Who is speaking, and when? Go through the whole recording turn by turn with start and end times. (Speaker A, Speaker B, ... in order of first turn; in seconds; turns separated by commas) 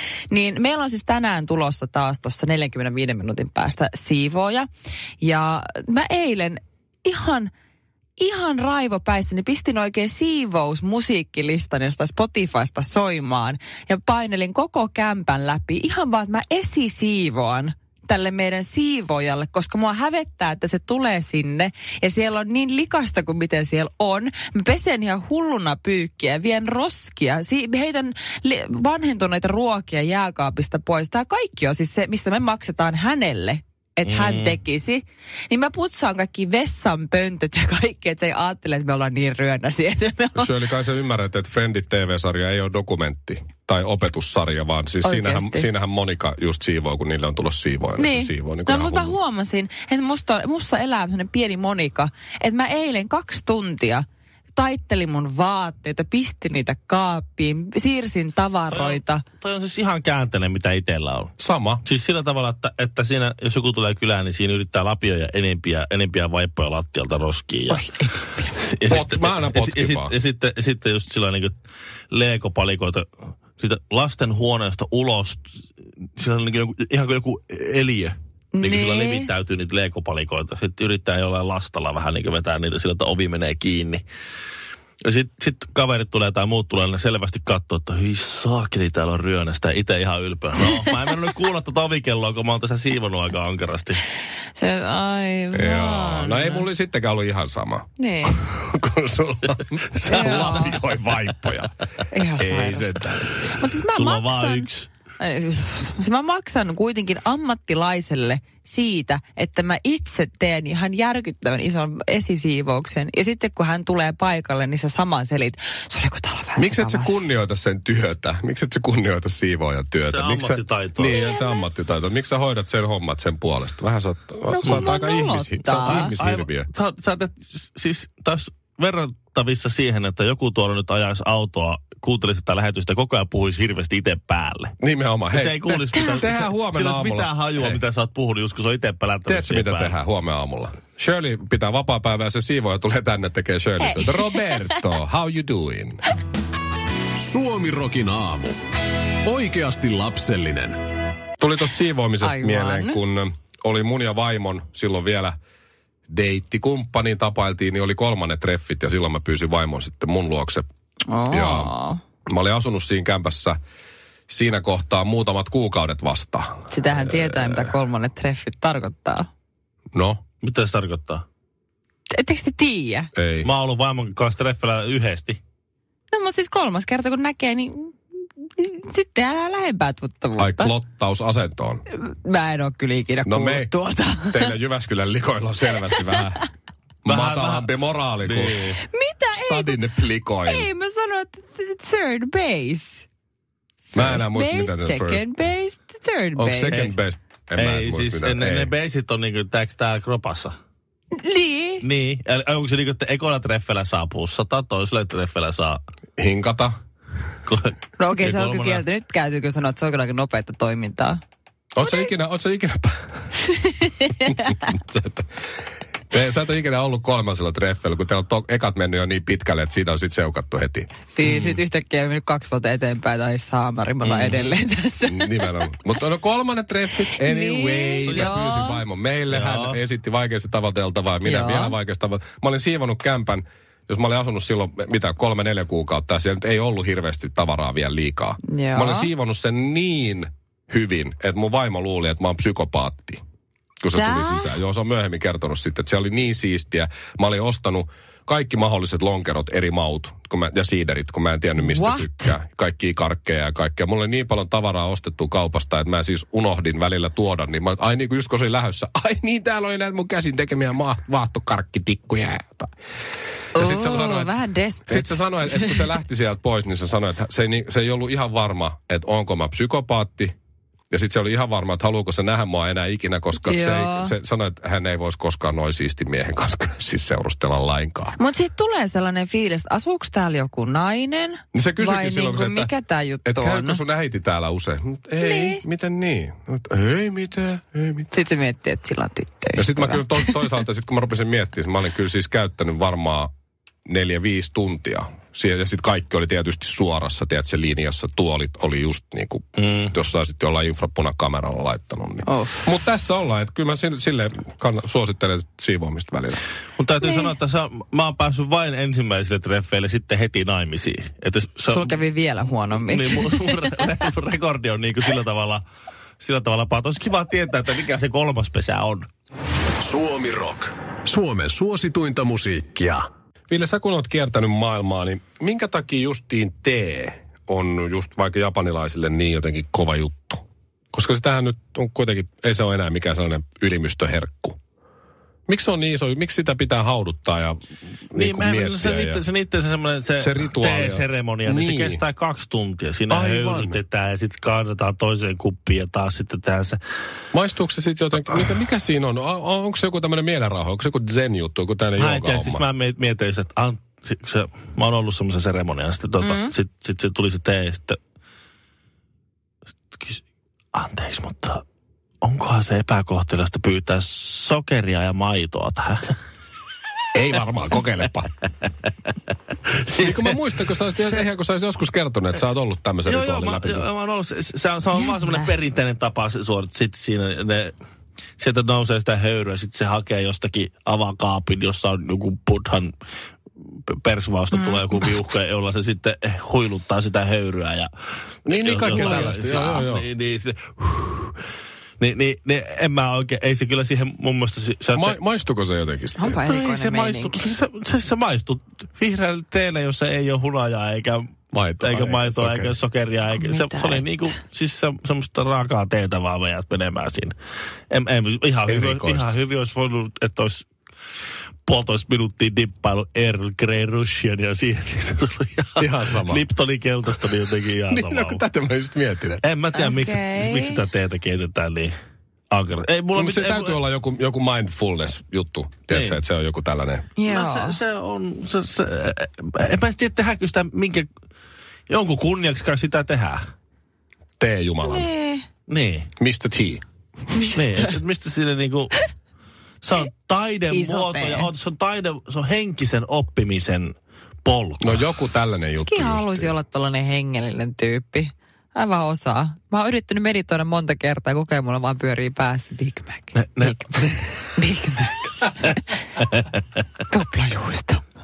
Speaker A: 0.3-4.7, Speaker A: 5.2-7.5, Speaker A: 8.2-40.7, Speaker B: 34.0-34.6, Speaker C: 40.4-49.2, Speaker A: 45.0-45.7, Speaker A: 48.0-59.2, Speaker B: 58.7-61.3, Speaker C: 61.4-61.8, Speaker B: 61.9-67.9, Speaker A: 67.7-68.6, Speaker B: 68.6-71.6, Speaker C: 68.9-70.1, Speaker B: 72.1-75.6, Speaker B: 76.2-84.0, Speaker A: 78.5-79.3, Speaker B: 85.0-94.0, Speaker A: 94.6-96.7, Speaker C: 95.5-101.7, Speaker A: 98.0-98.4, Speaker A: 100.1-100.8, Speaker B: 100.1-100.8, Speaker A: 102.1-104.7, Speaker C: 102.4-103.5, Speaker B: 103.9-104.9, Speaker A: 105.2-117.2, Speaker C: 116.6-126.7, Speaker B: 120.1-121.1, Speaker A: 121.1-121.7, Speaker A: 124.5-126.1, Speaker B: 125.7-134.7, Speaker C: 134.8-137.8, Speaker B: 135.3-140.0, Speaker C: 139.3-146.0, Speaker A: 143.8-144.8, Speaker D: 147.2-148.6, Speaker D: 149.2-150.8, Speaker C: 151.4-155.4, Speaker A: 152.2-153.0, Speaker C: 156.1-160.7, Speaker A: 161.1-162.0, Speaker C: 161.3-161.7, Speaker C: 162.3-163.6, Speaker C: 164.3-167.7, Speaker A: 166.7-169.3, Speaker C: 169.9-170.2, Speaker B: 170.4-171.2, Speaker A: 172.1-173.1, Speaker C: 173.2-173.5, Speaker B: 173.4-175.4, Speaker A: 176.1-177.9, Speaker A: 178.6-180.7, Speaker C: 180.4-181.8, Speaker A: 181.9-184.6, Speaker C: 183.3-183.7, Speaker C: 184.2-186.4, Speaker A: 185.9-186.2, Speaker C: 187.0-188.6, Speaker B: 187.1-187.7, Speaker B: 188.2-188.8, Speaker A: 188.9-193.1, Speaker C: 189.3-190.7, Speaker A: 193.9-196.8, Speaker C: 193.9-195.2, Speaker C: 196.4-198.7, Speaker B: 196.7-197.0, Speaker B: 197.6-200.6, Speaker A: 201.2-201.8, Speaker B: 201.8-205.8, Speaker C: 206.2-206.8, Speaker B: 207.5-208.8, Speaker A: 208.0-211.2, Speaker C: 211.8-213.1, Speaker A: 213.5-214.6, Speaker C: 214.3-215.2, Speaker C: 216.1-221.6, Speaker A: 221.2-225.6, Speaker C: 224.0-224.5, Speaker C: 225.1-243.2, Speaker A: 227.0-228.8, Speaker B: 228.1-228.4, Speaker B: 229.3-229.8, Speaker A: 231.2-231.8, Speaker A: 238.5-239.1, Speaker C: 243.8-262.7, Speaker A: 243.9-244.5, Speaker A: 251.6-252.3, Speaker C: 263.6-264.3, Speaker A: 263.6-265.9, Speaker C: 264.9-270.3, Speaker C: 270.9-278.2, Speaker A: 273.4-274.1, Speaker A: 278.2-283.8, Speaker C: 281.5-282.7, Speaker C: 283.2-288.1, Speaker A: 285.2-285.6, Speaker A: 288.1-290.4, Speaker C: 289.6-293.3, Speaker C: 293.9-306.4, Speaker B: 299.6-299.9, Speaker A: 302.2-302.7, Speaker B: 306.8-312.0, Speaker A: 307.0-307.3, Speaker A: 311.7-313.8, Speaker B: 312.7-315.6, Speaker B: 316.2-319.1, Speaker D: 319.8-323.0, Speaker C: 323.5-330.4, Speaker C: 330.9-334.6, Speaker C: 335.5-337.6, Speaker C: 338.1-339.2, Speaker B: 338.2-346.8, Speaker C: 340.2-342.0, Speaker C: 343.1-343.8, Speaker C: 347.3-352.6, Speaker B: 352.0-358.0, Speaker A: 356.2-356.5, Speaker B: 359.9-360.2, Speaker B: 360.7-361.6, Speaker B: 362.2-366.2, Speaker C: 367.1-368.3, Speaker B: 369.9-370.4, Speaker C: 370.0-373.9, Speaker B: 373.1-377.7, Speaker A: 374.9-375.5, Speaker B: 378.4-382.9, Speaker B: 383.9-387.9, Speaker A: 384.5-385.1, Speaker B: 388.4-391.4, Speaker C: 388.5-390.1, Speaker A: 388.9-389.5, Speaker B: 392.0-395.2, Speaker C: 394.9-396.4, Speaker A: 396.2-397.4, Speaker B: 396.5-407.3, Speaker C: 401.5-402.7, Speaker A: 403.3-404.4, Speaker B: 407.9-410.7, Speaker C: 408.7-409.3, Speaker B: 411.7-418.4, Speaker C: 415.8-416.4, Speaker C: 417.9-419.4, Speaker B: 419.4-421.9, Speaker A: 419.7-420.8, Speaker B: 422.5-423.8, Speaker C: 423.1-427.1, Speaker B: 425.9-426.2, Speaker A: 427.2-427.8, Speaker B: 427.3-431.1, Speaker B: 431.9-433.5, Speaker C: 434.4-435.1, Speaker A: 434.8-435.4, Speaker B: 435.7-436.1, Speaker C: 436.2-436.8, Speaker A: 437.3-437.8, Speaker B: 437.5-439.0, Speaker B: 439.8-445.1, Speaker A: 440.7-441.5, Speaker C: 444.8-446.5, Speaker A: 445.9-455.9, Speaker B: 453.4-454.3, Speaker A: 457.1-458.0